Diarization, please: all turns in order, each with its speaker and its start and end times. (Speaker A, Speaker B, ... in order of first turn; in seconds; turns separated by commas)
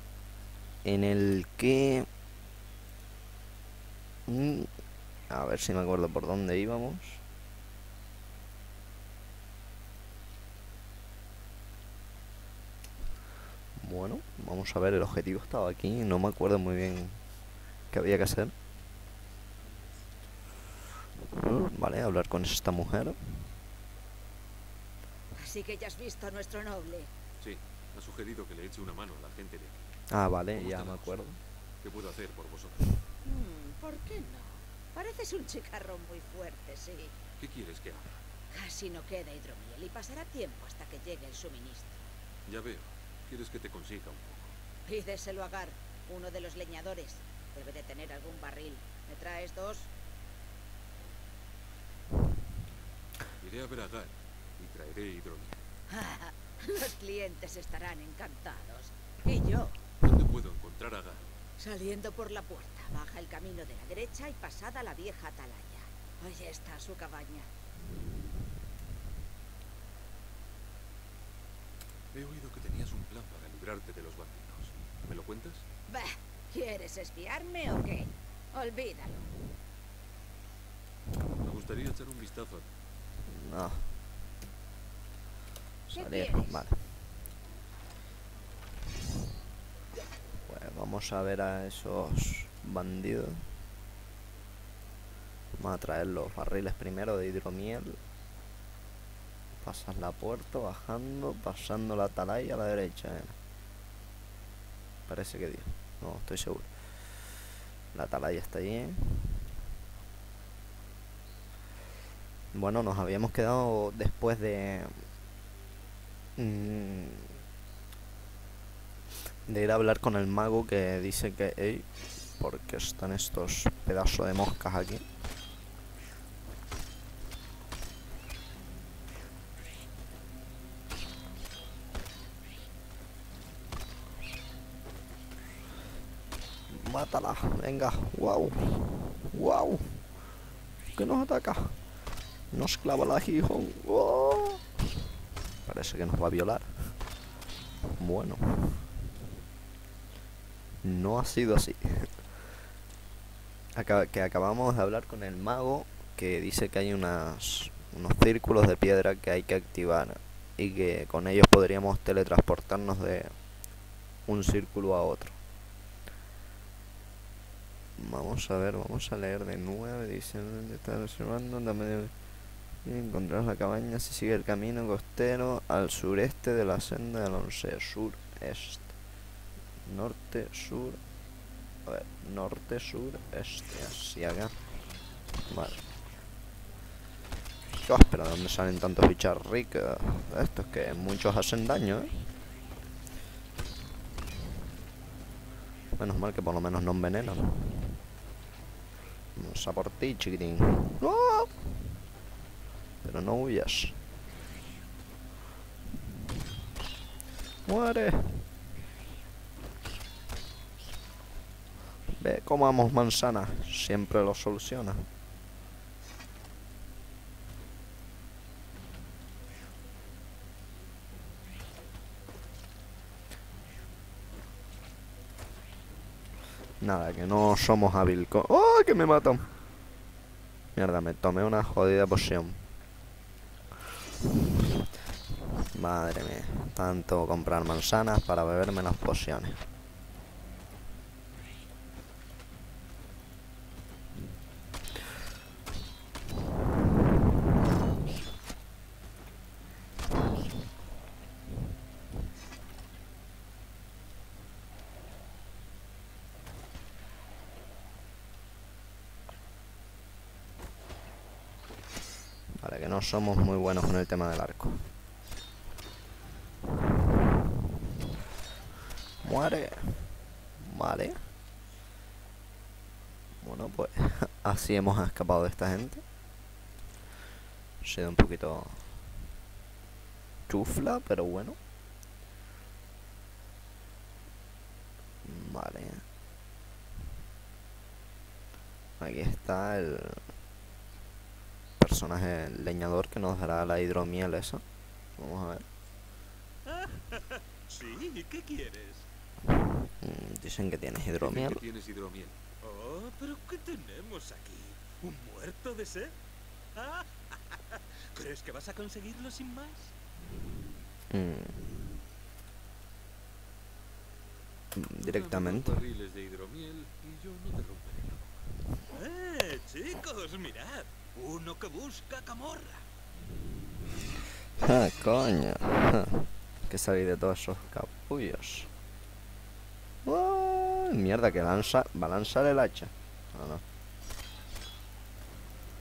Speaker A: 0.8-2.1, Speaker A: 4.3-4.7, Speaker A: 5.3-7.2, Speaker A: 13.8-17.2, Speaker A: 17.9-18.5, Speaker A: 21.3-23.5, Speaker B: 25.3-27.1, Speaker C: 27.4-29.9, Speaker A: 30.1-31.4, Speaker C: 30.5-31.2, Speaker C: 31.8-33.0, Speaker B: 33.2-37.1, Speaker C: 37.4-38.1, Speaker B: 38.5-42.0, Speaker C: 42.5-44.5, Speaker B: 44.9-49.9, Speaker C: 53.4-55.6, Speaker B: 55.9-59.8, Speaker C: 60.0-61.3, Speaker B: 61.6-67.5, Speaker C: 72.1-75.6, Speaker B: 75.9-79.3, Speaker C: 81.4-82.7, Speaker A: 83.2-83.9, Speaker A: 85.9-86.8, Speaker B: 85.9-86.6, Speaker A: 90.5-93.5, Speaker A: 95.5-98.0, Speaker A: 99.5-103.3, Speaker A: 105.1-106.9, Speaker A: 107.9-109.5, Speaker A: 112.5-115.0, Speaker A: 116.4-117.4, Speaker A: 119.5-125.0, Speaker A: 136.7-138.8, Speaker A: 139.3-140.0, Speaker A: 140.9-141.8, Speaker A: 142.5-144.7, Speaker A: 145.6-146.9, Speaker A: 148.0-148.9, Speaker A: 150.8-152.3, Speaker A: 153.8-163.3, Speaker A: 164.2-165.4, Speaker A: 168.0-172.1, Speaker A: 172.8-178.9, Speaker A: 179.8-181.0, Speaker A: 181.8-184.6, Speaker A: 185.4-185.8, Speaker A: 187.8-192.2, Speaker A: 196.0-197.9, Speaker A: 199.3-201.8, Speaker A: 203.0-204.0, Speaker A: 207.6-208.5, Speaker A: 212.2-215.1, Speaker A: 226.8-229.5, Speaker A: 230.7-232.7, Speaker A: 235.7-239.6, Speaker A: 262.5-264.9, Speaker A: 269.2-271.2, Speaker A: 273.4-276.0, Speaker A: 277.8-279.1, Speaker A: 280.5-281.6, Speaker A: 285.2-286.0, Speaker A: 289.0-290.2, Speaker A: 291.8-294.6, Speaker A: 295.2-295.6, Speaker D: 296.6-299.1, Speaker A: 300.0-301.6, Speaker C: 301.1-302.4, Speaker D: 302.6-306.1, Speaker D: 306.8-309.9, Speaker A: 311.1-311.9, Speaker A: 314.8-315.8, Speaker C: 315.0-318.4, Speaker D: 318.9-322.8, Speaker A: 324.6-328.7, Speaker A: 330.0-333.6